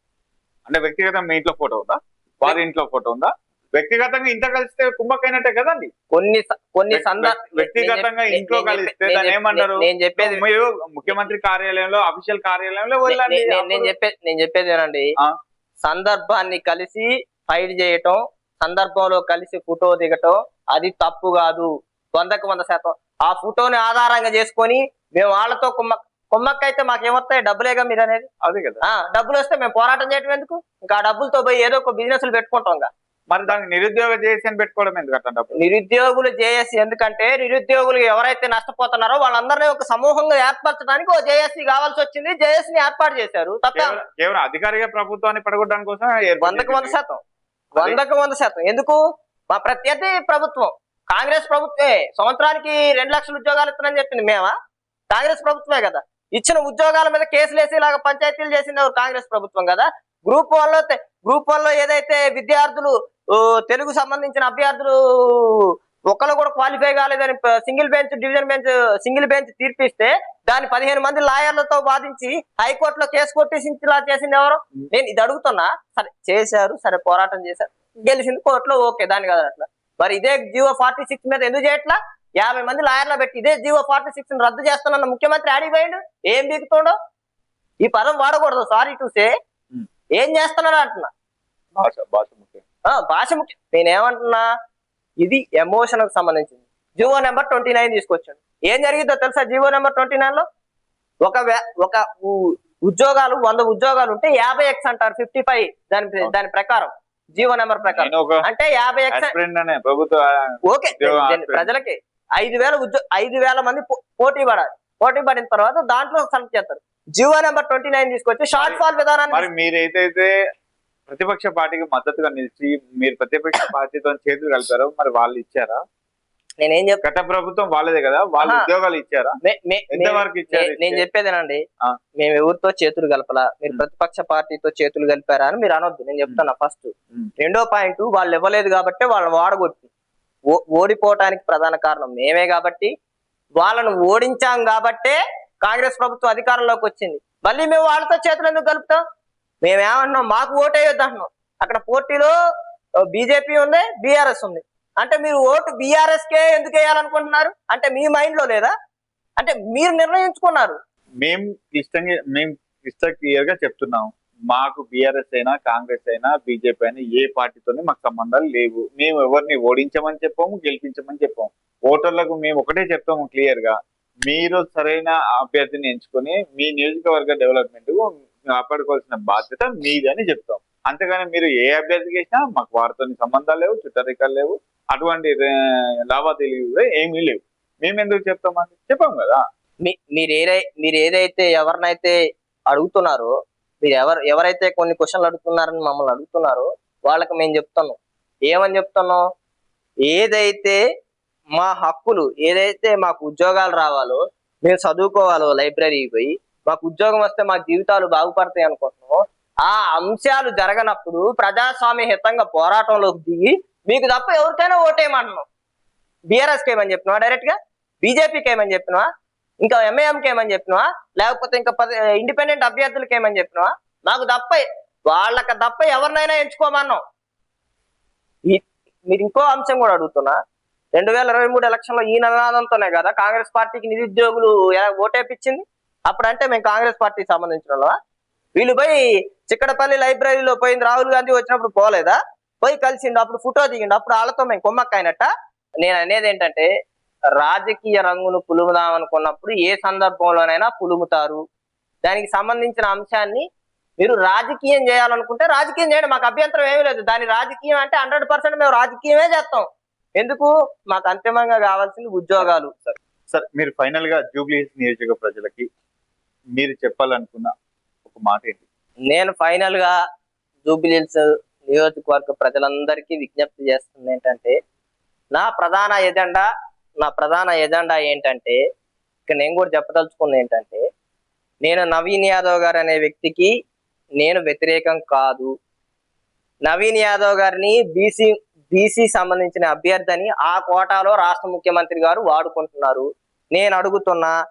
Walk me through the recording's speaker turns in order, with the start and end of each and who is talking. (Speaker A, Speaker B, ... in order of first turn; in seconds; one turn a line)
Speaker A: 0.7-5.9
Speaker B: 6.1-10.4
Speaker A: 6.9-13.9
Speaker B: 13.1-15.1
Speaker B: 15.8-28.3
Speaker A: 28.4-28.8
Speaker B: 28.8-32.9
Speaker A: 33.3-35.6
Speaker B: 35.6-44.0
Speaker A: 43.7-47.0
Speaker B: 46.4-47.2
Speaker B: 47.8-49.0
Speaker B: 49.5-54.5
Speaker B: 55.1-87.0
Speaker B: 87.8-89.3
Speaker B: 90.2-91.1
Speaker A: 91.8-92.6
Speaker B: 92.9-94.5
Speaker B: 95.2-100.4
Speaker B: 101.2-109.3
Speaker A: 107.9-108.4
Speaker A: 109.1-111.7
Speaker B: 110.7-119.5
Speaker A: 118.5-118.8
Speaker A: 119.3-120.3
Speaker A: 121.1-125.8
Speaker B: 126.6-127.0
Speaker A: 127.0-129.4
Speaker B: 129.4-131.6
Speaker A: 129.9-131.0
Speaker B: 132.2-139.9
Speaker B: 140.5-142.9
Speaker B: 143.6-149.0
Speaker B: 149.6-152.3
Speaker B: 153.1-158.7
Speaker B: 159.4-160.8
Speaker A: 161.2-185.5
Speaker A: 186.1-189.4
Speaker B: 189.8-192.2
Speaker B: 192.7-193.3
Speaker B: 193.8-198.0
Speaker B: 198.5-199.2
Speaker B: 200.1-200.8
Speaker B: 201.6-215.4
Speaker B: 216.3-219.1
Speaker B: 219.6-227.0
Speaker B: 228.5-230.4
Speaker B: 230.9-237.9
Speaker B: 238.6-245.3
Speaker B: 245.8-246.7
Speaker B: 247.4-251.4
Speaker B: 252.0-253.5
Speaker B: 254.0-259.6
Speaker B: 260.2-262.7
Speaker A: 262.4-265.7
Speaker A: 266.6-267.5
Speaker A: 268.0-268.6
Speaker B: 269.1-269.9
Speaker B: 270.6-274.6
Speaker B: 275.4-276.4
Speaker B: 277.0-278.6
Speaker B: 279.3-280.8
Speaker B: 281.6-283.5
Speaker B: 284.2-285.5
Speaker B: 286.6-294.3